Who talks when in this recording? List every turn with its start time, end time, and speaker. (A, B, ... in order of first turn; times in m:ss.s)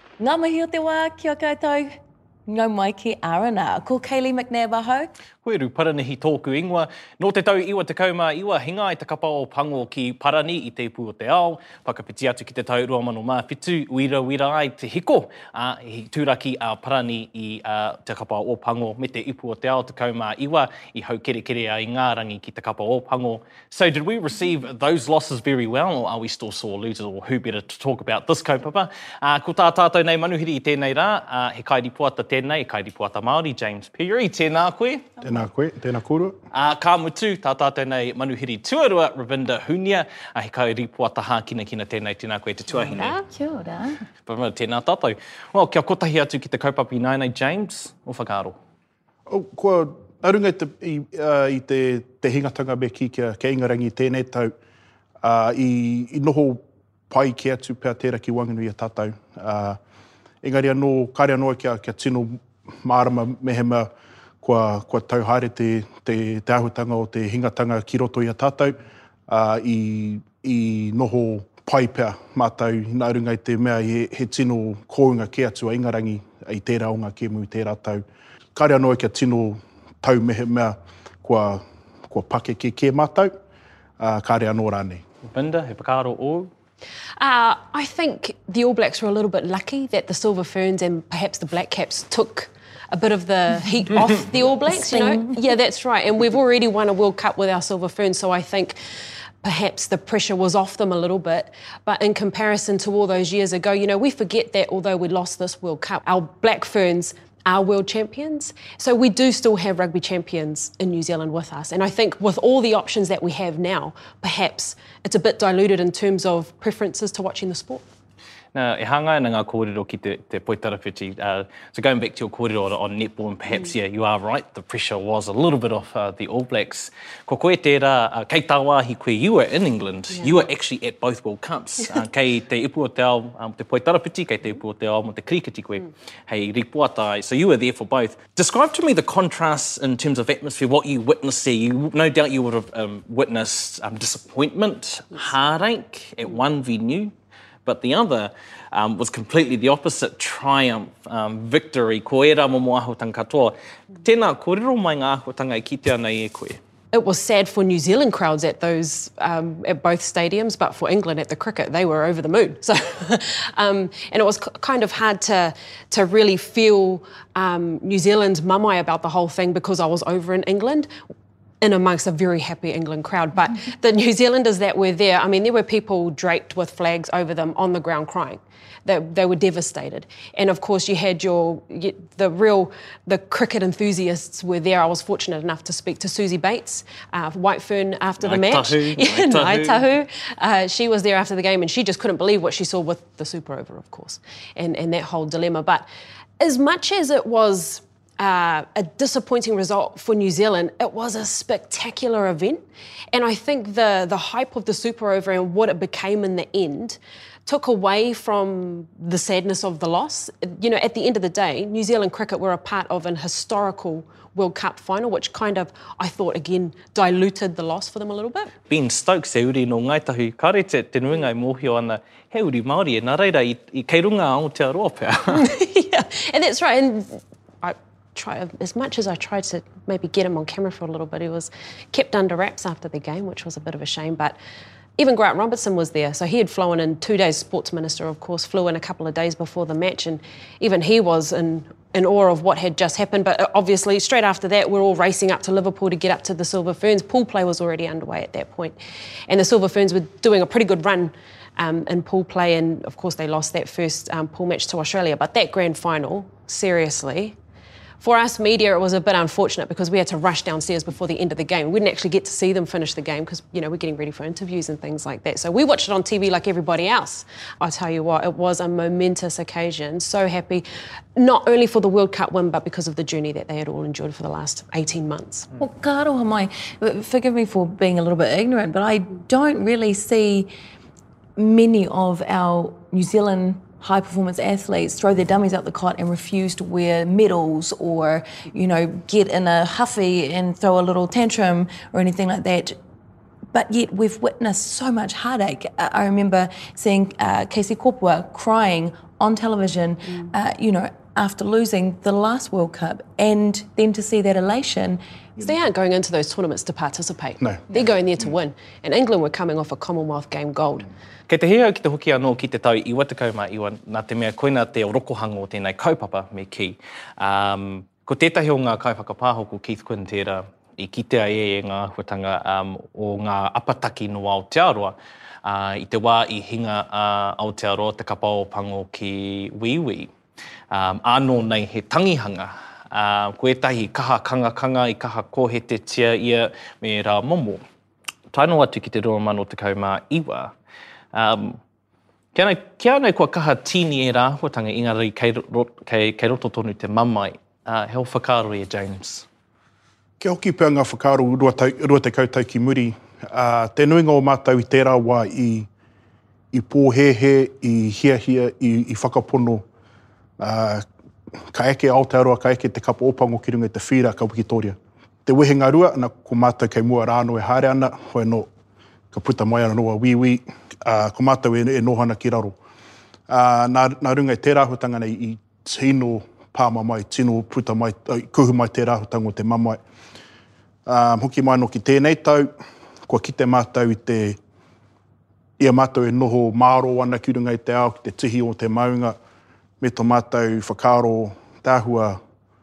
0:00.2-0:01.9 A
0:02.5-0:05.1 A
0:05.4-0:35.1 B
0:35.2-0:36.4 C
0:36.5-0:43.2 B
0:42.9-0:43.2 D
0:43.2-0:44.0 A
0:44.2-0:48.6 B
0:49.3-0:54.5 C
0:55.2-0:59.8 C
1:00.4-1:03.9 C
1:04.4-1:18.0 C
1:18.5-1:23.3 C
1:24.0-1:25.0 C
1:25.3-1:26.5 B
1:27.2-1:38.8 D
1:34.7-1:35.4 A
1:39.4-1:57.8 D
1:58.5-2:27.1 B
2:27.6-2:36.6 B
2:36.9-2:50.9 D
2:51.6-3:15.8 D
3:08.2-3:09.8 B
3:16.4-3:38.5 D
3:38.7-3:45.5 B
3:45.3-3:54.4 D
3:55.0-4:08.8 D
4:09.3-4:17.4 D
4:18.0-4:35.5 D
4:35.6-4:40.5 A
4:41.4-4:52.8 A
4:53.5-5:05.0 A
5:05.4-5:10.9 D
5:11.3-5:30.1 B
5:30.7-5:37.6 B
5:38.3-5:40.5 B
5:41.1-5:41.6 B
5:42.3-5:49.2 B
5:50.2-5:55.7 C
5:56.5-5:59.6 C
6:00.4-6:00.8 C
6:01.4-6:08.5 C
6:09.1-6:12.6 C
6:13.3-6:19.8 C
6:20.8-6:22.5 C
6:23.1-6:24.4 C
6:25.6-6:29.2 C
6:29.8-6:32.2 C